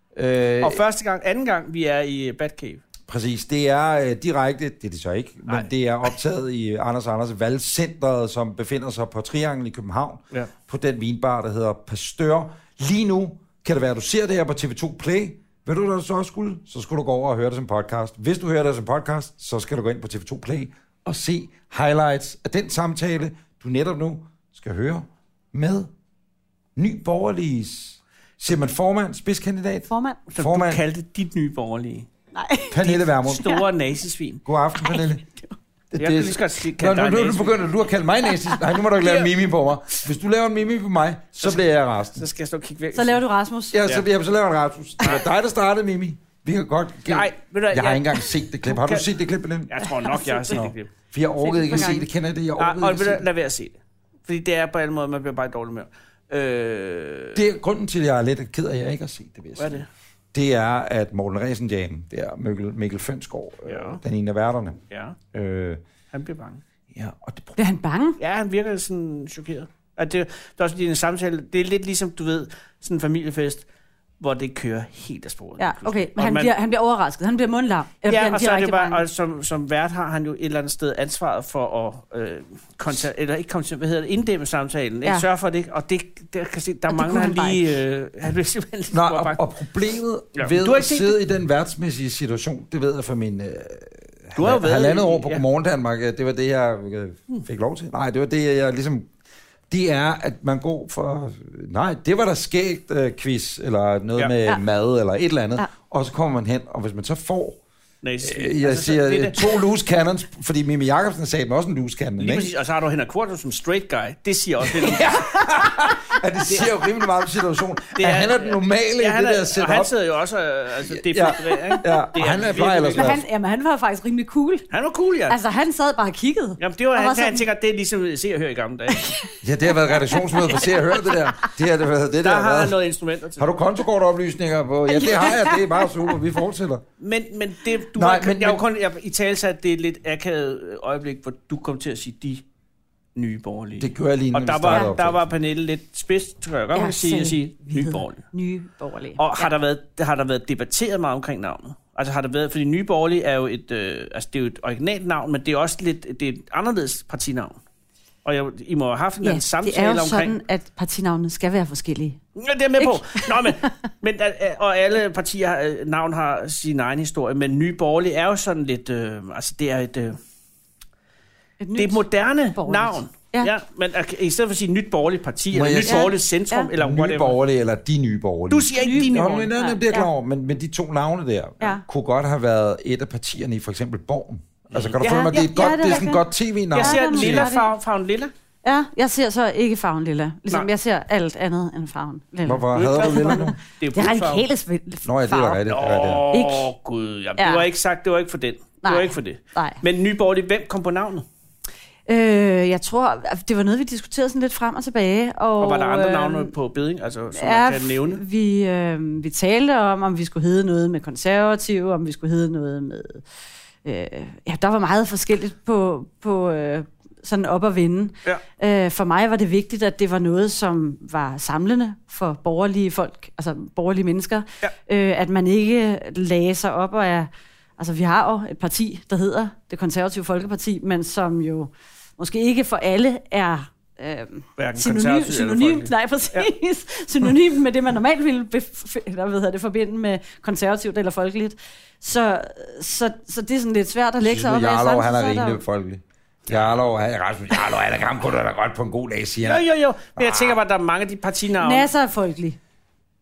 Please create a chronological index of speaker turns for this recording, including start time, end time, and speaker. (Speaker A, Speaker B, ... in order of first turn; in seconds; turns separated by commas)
Speaker A: 0.1-0.8, Speaker B: 0.6-2.8, Speaker A: 3.1-25.9, Speaker A: 26.8-30.8, Speaker C: 29.9-30.2, Speaker B: 30.3-32.1, Speaker C: 32.3-32.8, Speaker A: 32.7-33.5, Speaker B: 32.8-34.4, Speaker A: 34.4-35.2, Speaker C: 34.8-35.5, Speaker A: 35.9-42.2, Speaker B: 36.0-37.7, Speaker B: 38.9-39.3, Speaker B: 42.1-43.2, Speaker C: 42.9-43.8, Speaker A: 43.7-49.7, Speaker B: 47.1-49.1, Speaker B: 49.7-50.9, Speaker C: 50.0-50.5, Speaker A: 50.4-53.2, Speaker C: 51.4-52.0, Speaker B: 52.6-57.4, Speaker A: 57.3-64.8, Speaker B: 59.6-59.9, Speaker B: 63.7-64.0, Speaker B: 64.9-65.2, Speaker A: 65.3-65.8, Speaker B: 66.1-66.6, Speaker A: 66.9-67.6, Speaker C: 67.6-68.2, Speaker B: 68.2-73.7, Speaker B: 74.2-76.5, Speaker C: 75.6-79.0, Speaker B: 78.1-89.4, Speaker C: 86.9-87.6, Speaker A: 88.9-99.1, Speaker B: 90.3-91.2, Speaker B: 94.3-95.4, Speaker A: 99.7-107.6, Speaker B: 108.0-109.6, Speaker A: 108.2-112.5, Speaker B: 112.2-115.6, Speaker A: 114.6-119.9, Speaker B: 116.5-116.8, Speaker B: 117.9-123.2, Speaker A: 120.8-123.2, Speaker C: 121.5-122.0, Speaker C: 122.9-124.7, Speaker B: 124.7-125.3, Speaker C: 125.3-127.4, Speaker B: 126.6-129.1, Speaker C: 128.9-129.4, Speaker A: 129.4-132.8, Speaker C: 129.9-130.7, Speaker B: 132.2-133.5, Speaker A: 133.4-136.8, Speaker C: 134.9-135.9, Speaker B: 137.0-142.4, Speaker A: 137.9-138.6, Speaker B: 143.1-148.2, Speaker A: 143.8-145.2, Speaker C: 146.7-149.5, Speaker B: 149.2-157.5, Speaker B: 158.2-160.4, Speaker C: 159.2-162.2, Speaker B: 162.4-170.2, Speaker C: 162.8-163.7, Speaker C: 171.6-173.5, Speaker B: 171.8-177.4, Speaker A: 175.5-176.1, Speaker C: 175.8-176.7, Speaker A: 176.8-187.4, Speaker B: 178.5-179.5, Speaker C: 178.8-180.1, Speaker B: 184.7-185.0, Speaker C: 185.0-186.2, Speaker C: 186.7-187.7, Speaker B: 186.7-188.3, Speaker C: 188.6-195.6, Speaker A: 192.4-193.6, Speaker B: 192.7-194.4, Speaker A: 195.0-196.3, Speaker B: 195.7-201.2, Speaker C: 196.3-196.7, Speaker C: 197.4-197.6, Speaker C: 198.8-199.8, Speaker C: 202.1-206.5, Speaker B: 205.6-208.2, Speaker C: 207.3-213.2, Speaker C: 213.8-245.6, Speaker B: 234.6-236.4, Speaker A: 244.2-249.6, Speaker B: 246.5-246.8, Speaker B: 249.4-251.9, Speaker A: 250.2-250.6, Speaker C: 251.6-252.6